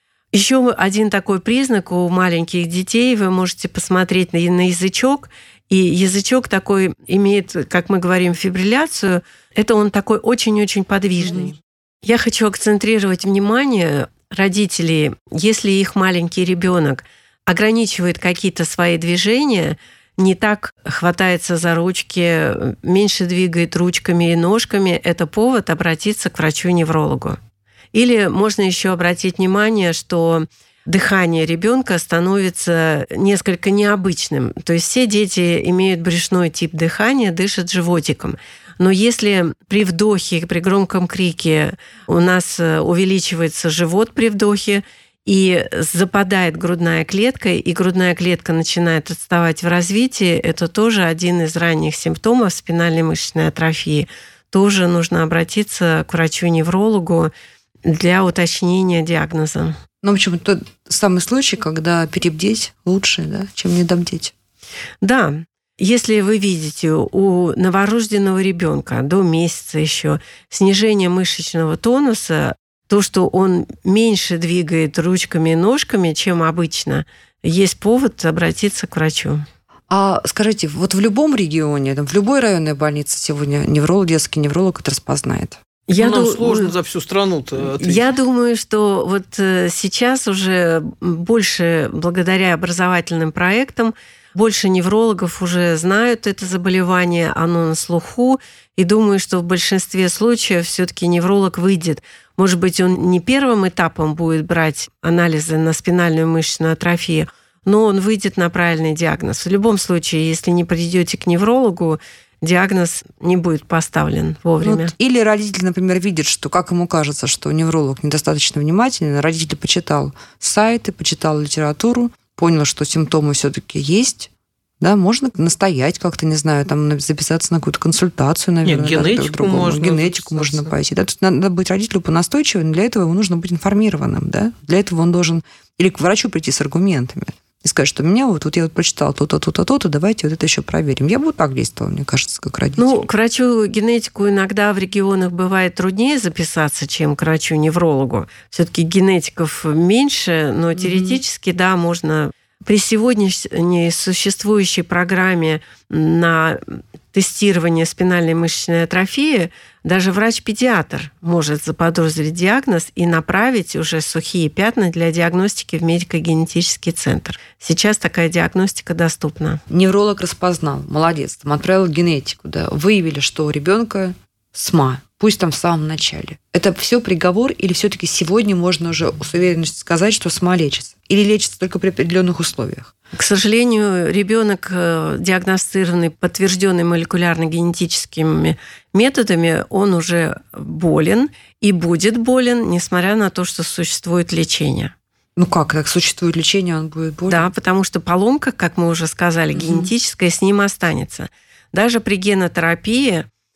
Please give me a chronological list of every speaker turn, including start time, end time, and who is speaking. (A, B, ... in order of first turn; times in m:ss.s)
0:00.3-0:27.4 A
0:11.2-0:11.5 B
0:27.9-0:57.3 A
0:57.8-0:59.8 A
1:00.0-1:04.3 B
1:05.0-1:19.4 A
1:19.9-1:25.6 B
1:25.9-1:26.7 A
1:26.0-1:28.1 C
1:27.6-1:54.9 A
1:54.6-2:23.0 B
2:08.6-2:10.7 C
2:22.8-2:49.6 A
2:30.7-2:31.2 B
2:49.7-3:02.9 B
3:03.1-3:14.9 A
3:15.4-3:17.5 B
3:17.3-3:23.2 A
3:19.5-3:19.9 B